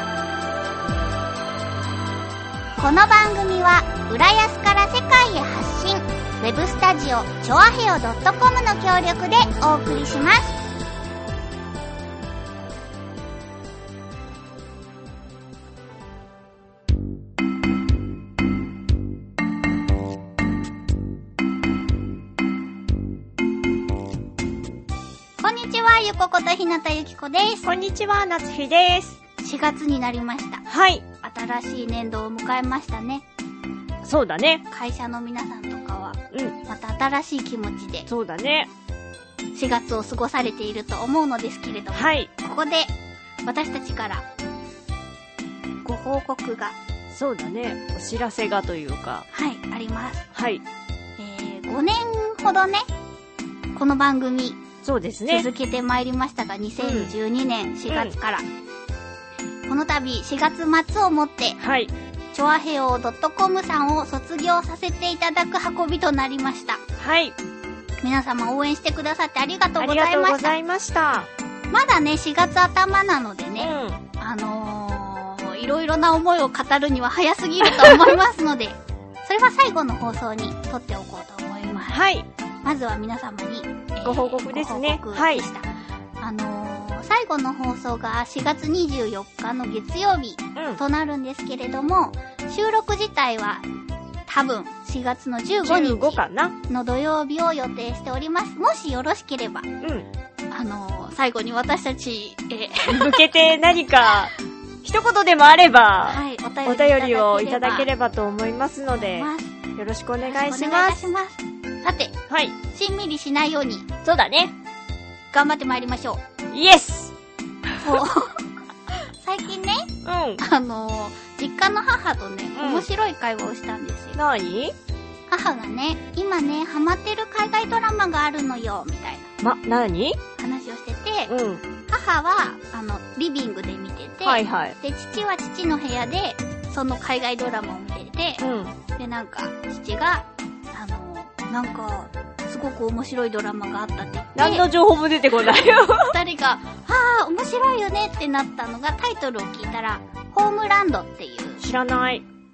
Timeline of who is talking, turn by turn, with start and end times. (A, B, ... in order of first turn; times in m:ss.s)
0:02.8-0:10.6 A
0:25.4-0:27.7 A
0:27.6-0:29.2 B
0:29.4-0:30.6 A
0:30.7-0:31.0 B
0:31.2-0:33.2 A
0:34.0-0:34.6 B
0:34.7-0:38.1 A
0:38.1-0:38.7 B
0:39.5-0:42.9 A
0:41.9-0:42.3 B
0:43.4-0:44.2 A
0:45.8-0:46.8 A
0:47.1-0:49.3 B
0:49.3-0:50.3 A
0:50.3-0:50.6 B
0:51.2-0:52.8 A
0:53.7-0:54.6 A
0:54.8-0:55.5 B
0:55.3-0:58.4 A
0:56.8-0:57.1 B
0:57.9-0:58.1 B
0:59.7-1:01.6 A
1:01.6-1:01.9 B
1:02.3-1:06.8 A
1:07.0-1:07.4 B
1:08.0-1:10.5 A
1:09.8-1:11.3 B
1:11.7-1:22.0 A
1:13.6-1:14.0 B
1:21.9-1:22.3 B
1:22.6-1:33.6 A
1:24.0-1:25.4 B
1:30.6-1:30.8 B
1:34.3-1:39.7 A
1:35.6-1:36.6 B
1:39.8-1:40.1 B
1:40.5-1:43.2 A
1:42.9-1:51.1 B
1:46.0-1:47.9 A
1:48.9-1:49.6 A
1:50.2-1:52.1 A
1:52.3-1:52.6 B
1:52.7-1:53.9 A
1:54.0-1:54.5 B
1:55.3-1:56.2 A
1:56.5-1:57.1 B
1:57.7-1:58.0 B
1:57.8-1:59.9 A
2:00.0-2:00.4 B
2:00.4-2:04.2 A
2:02.5-2:02.9 B
2:04.1-2:04.7 B
2:05.3-2:09.3 A
2:09.4-2:10.2 B
2:10.4-2:11.3 A
2:11.3-2:11.6 B
2:11.8-2:24.6 A
2:14.2-2:14.8 B
2:18.4-2:18.8 B
2:24.3-2:26.1 B
2:26.1-2:31.6 A
2:31.6-2:32.2 B